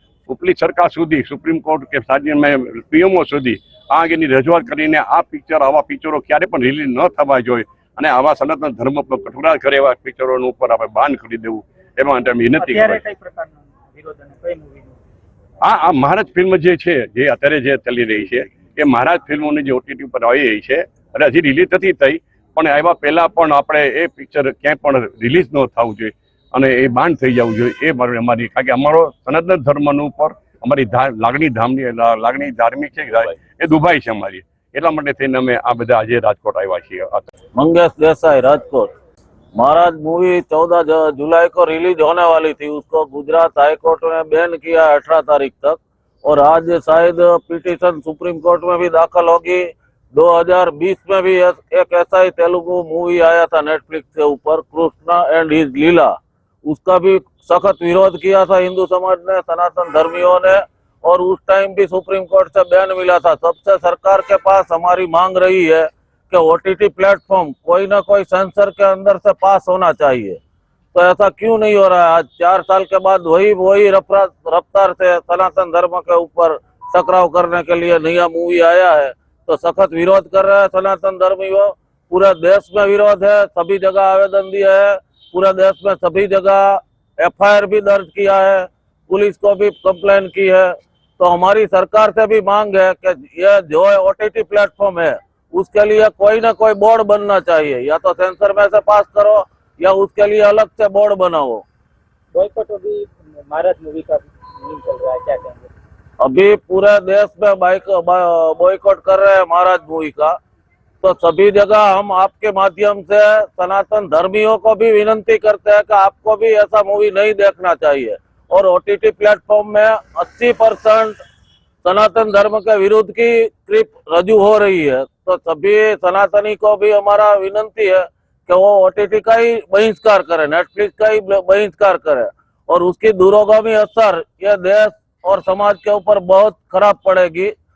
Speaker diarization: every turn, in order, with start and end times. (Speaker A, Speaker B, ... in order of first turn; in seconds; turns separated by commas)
Speaker A: 0.3-13.0, Speaker B: 12.6-15.0, Speaker A: 15.6-37.3, Speaker C: 37.5-38.9, Speaker C: 39.5-70.4, Speaker C: 70.9-101.6, Speaker B: 102.3-105.7, Speaker C: 106.2-110.4, Speaker C: 111.0-121.2, Speaker C: 121.8-137.5